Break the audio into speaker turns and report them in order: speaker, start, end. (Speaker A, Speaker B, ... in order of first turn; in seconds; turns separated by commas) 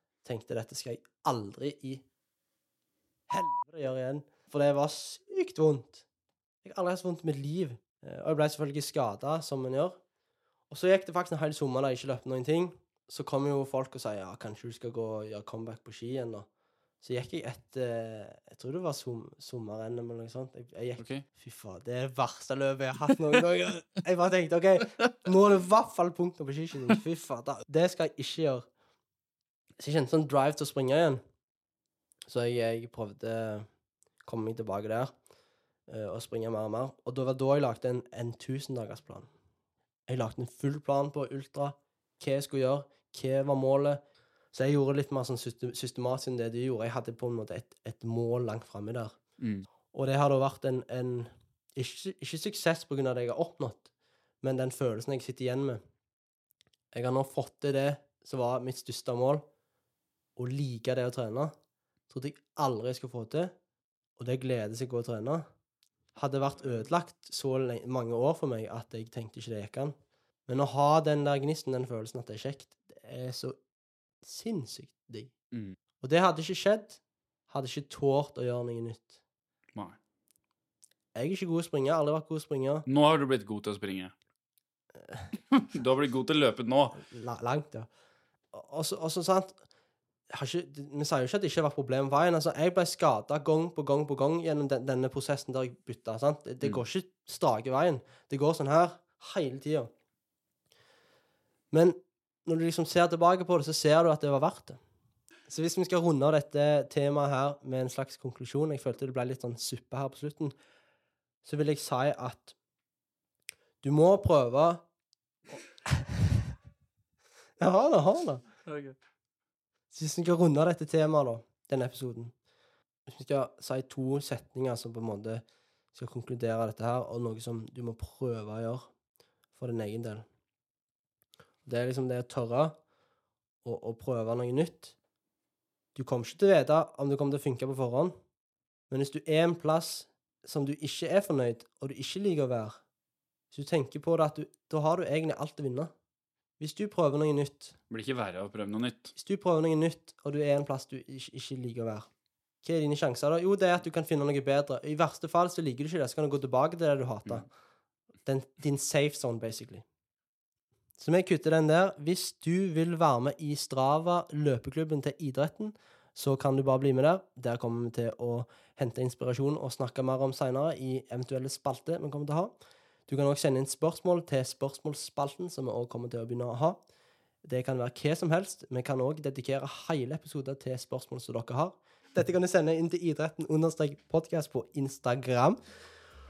Speaker A: 0.2-2.0, Speaker A: 3.3-6.0, Speaker A: 6.6-10.0, Speaker A: 10.7-16.5, Speaker A: 17.0-28.7, Speaker B: 21.0-21.2, Speaker A: 29.8-31.2, Speaker A: 32.3-33.7, Speaker A: 34.2-35.1, Speaker A: 35.9-39.3, Speaker A: 40.1-44.0, Speaker A: 44.5-49.2, Speaker B: 49.4-49.7, Speaker A: 49.9-53.9, Speaker A: 54.4-55.8, Speaker A: 56.9-59.5, Speaker A: 60.4-61.5, Speaker A: 62.1-63.5, Speaker A: 64.2-65.5, Speaker A: 66.2-70.0, Speaker A: 70.5-73.6, Speaker A: 74.2-75.3, Speaker A: 76.0-79.2, Speaker A: 81.2-82.9, Speaker B: 82.9-84.1, Speaker A: 85.0-85.3, Speaker B: 85.5-87.0, Speaker A: 87.0-87.9, Speaker A: 88.5-89.6, Speaker A: 90.3-99.9, Speaker A: 101.7-104.8, Speaker A: 105.5-110.5, Speaker A: 111.4-112.6, Speaker A: 113.8-114.8, Speaker A: 115.9-116.5, Speaker A: 117.6-118.7, Speaker B: 118.7-119.0, Speaker A: 119.9-122.3, Speaker A: 123.1-128.9, Speaker A: 129.6-130.3, Speaker A: 131.7-132.8, Speaker A: 133.6-135.0, Speaker A: 135.9-138.2, Speaker A: 138.9-142.8, Speaker A: 143.5-145.9, Speaker A: 146.6-147.8, Speaker B: 147.9-149.1, Speaker A: 149.2-152.1, Speaker A: 152.6-157.5, Speaker A: 158.2-159.8, Speaker A: 161.0-172.5, Speaker A: 173.1-176.8, Speaker A: 177.4-185.6